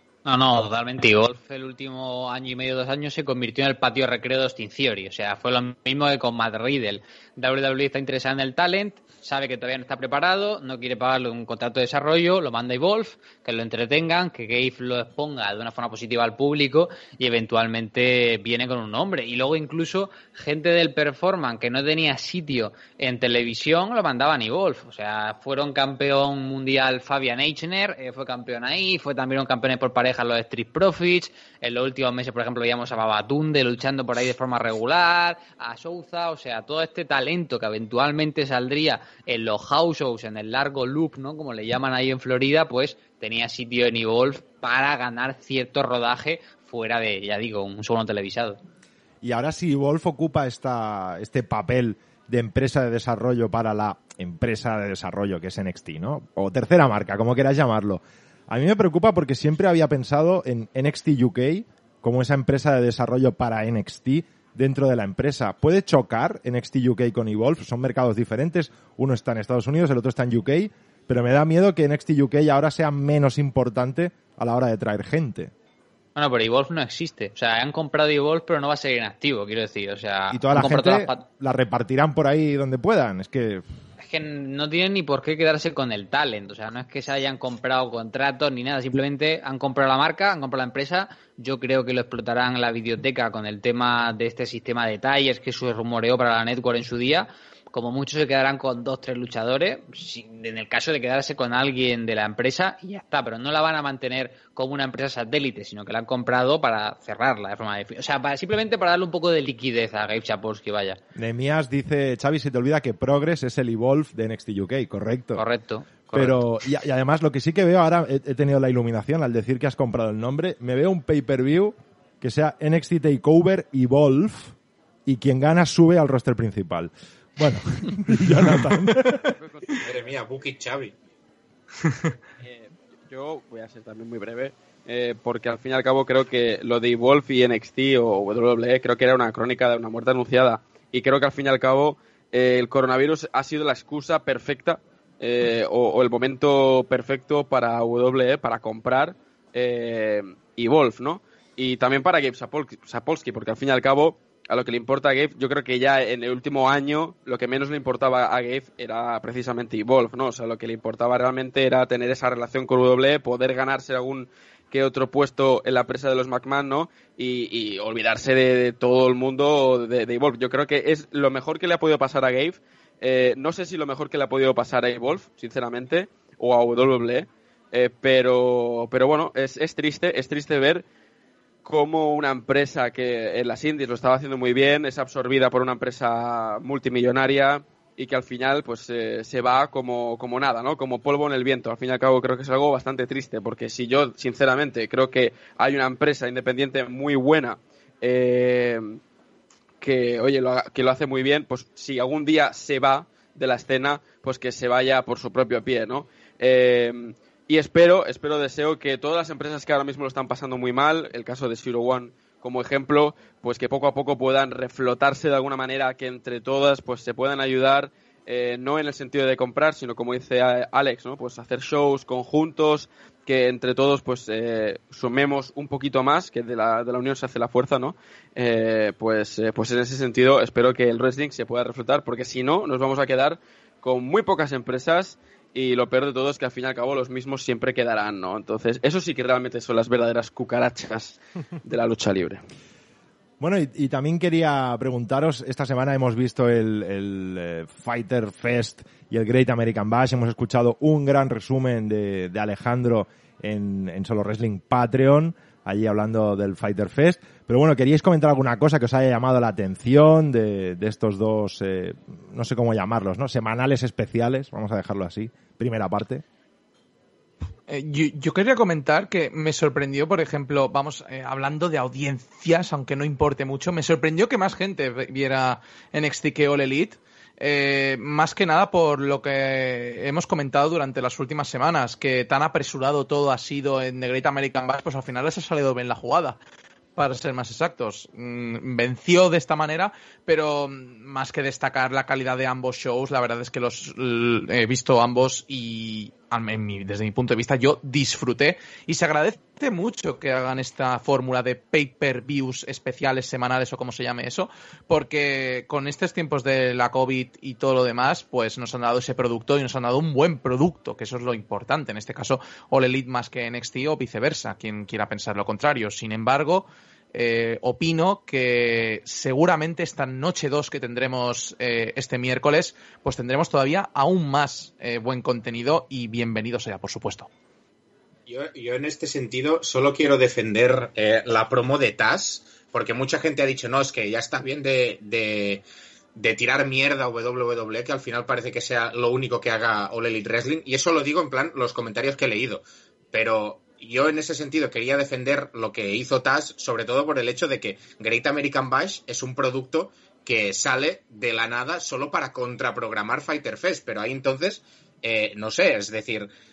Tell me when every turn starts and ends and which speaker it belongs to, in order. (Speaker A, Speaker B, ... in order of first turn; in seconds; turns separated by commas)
Speaker A: 0.2-48.6, Speaker B: 49.2-75.5, Speaker A: 76.2-81.2, Speaker B: 80.3-83.6, Speaker A: 84.0-111.0, Speaker B: 111.2-115.4, Speaker A: 115.4-116.4, Speaker B: 116.1-124.5, Speaker B: 125.1-129.3, Speaker C: 129.4-130.1, Speaker D: 129.8-130.9, Speaker C: 132.4-180.8, Speaker C: 181.7-199.0, Speaker C: 199.8-242.4, Speaker B: 243.4-266.2, Speaker E: 267.7-286.4, Speaker E: 287.0-327.3, Speaker D: 328.3-335.6, Speaker D: 336.2-356.3